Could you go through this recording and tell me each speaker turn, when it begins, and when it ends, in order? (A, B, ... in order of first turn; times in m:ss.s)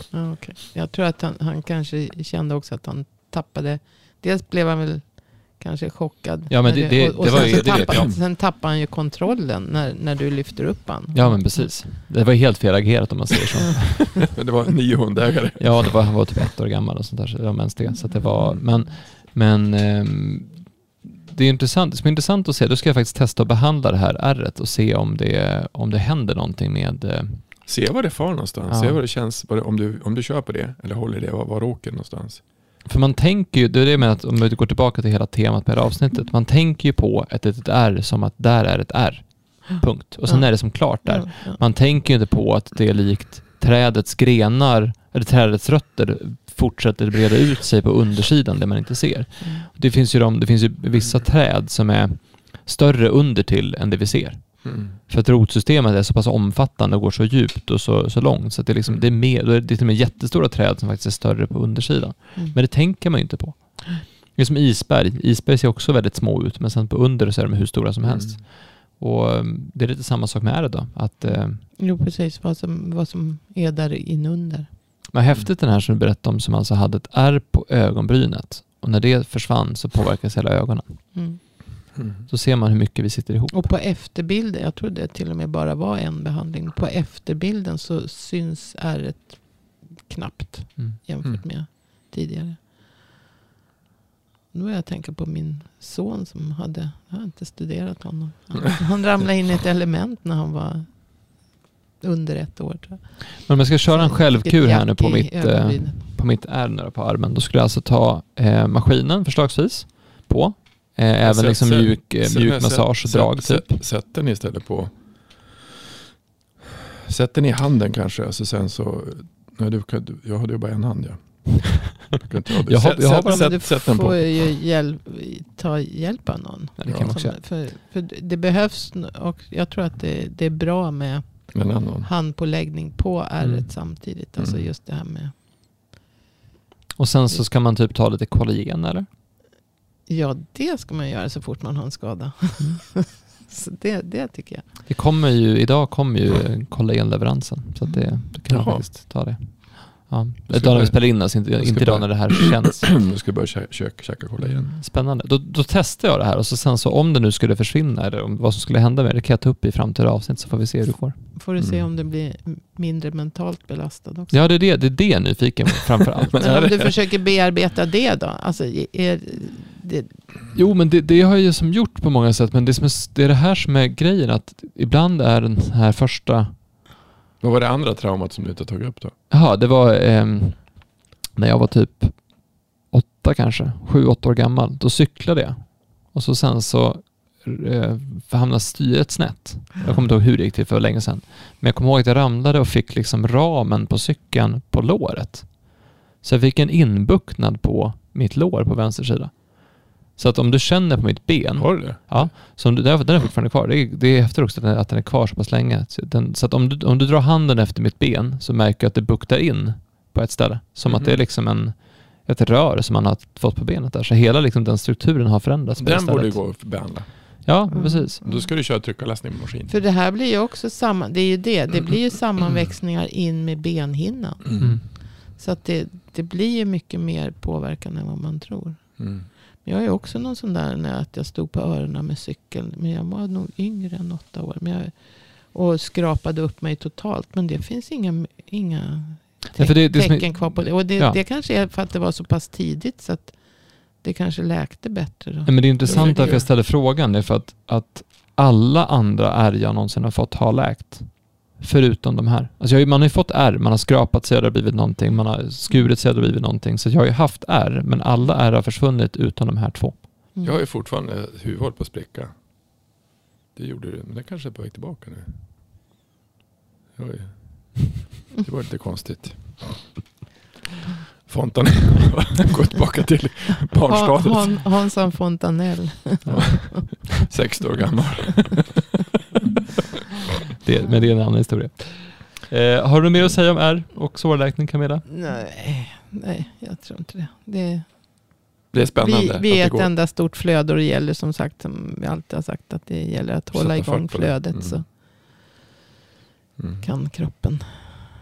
0:00.1-0:11.7 A
0:06.5-0:08.1 B
0:07.3-0:08.1 C
0:11.1-0:14.3 B
0:14.2-0:16.1 C
0:15.6-0:27.6 B
0:27.7-0:32.4 C
0:28.7-0:29.0 B
0:32.8-1:11.6 B
0:40.3-0:41.6 A
0:49.4-0:49.7 A
0:54.6-0:54.9 C
0:58.8-0:59.1 C
1:08.0-1:08.4 C
1:11.2-1:14.8 A
1:15.1-1:21.6 B
1:21.1-1:21.4 A
1:22.0-1:22.3 C
1:22.3-1:23.6 B
1:23.5-1:32.7 A
1:34.5-1:41.5 A
1:42.0-1:46.0 A
1:43.4-1:53.8 B
1:51.2-1:55.6 C
1:57.0-2:04.3 C
2:02.7-2:03.6 B
2:03.2-2:15.3 A
2:06.8-2:07.4 B
2:06.9-2:07.1 C
2:11.5-2:12.1 C
2:13.4-2:13.7 B
2:14.4-2:14.7 C
2:17.0-2:19.1 B
2:20.1-2:24.7 A
2:24.9-2:33.0 B
2:27.8-2:28.2 A
2:28.5-2:28.9 C
2:30.5-2:34.7 C
2:34.8-2:41.2 B
2:41.4-2:44.6 A
2:41.6-2:41.8 C
2:44.3-2:46.8 B
2:46.3-2:46.9 C
2:46.4-2:50.2 A
2:50.5-2:56.6 B
2:57.4-2:59.1 C
2:59.3-3:36.6 B
3:21.6-3:22.3 C
3:30.9-3:31.2 C
3:35.8-3:37.4 C
3:37.4-3:38.2 B
3:37.7-3:38.5 A
3:38.2-3:39.8 C
3:39.7-4:06.5 A
3:44.5-3:44.8 C
3:44.6-3:44.9 B
3:49.0-3:49.3 C
3:59.6-4:01.2 B
4:05.5-4:20.1 B
4:05.9-4:06.5 C
4:20.4-4:22.3 C
4:23.6-4:25.4 C
4:27.0-4:30.0 C
4:31.3-4:34.6 C
4:33.9-4:37.1 A
4:36.3-4:38.9 C
4:40.6-4:45.0 B
4:45.1-4:54.9 A
4:48.7-4:49.9 C
4:53.5-4:54.8 C
4:56.6-4:56.8 C
4:56.8-4:58.1 A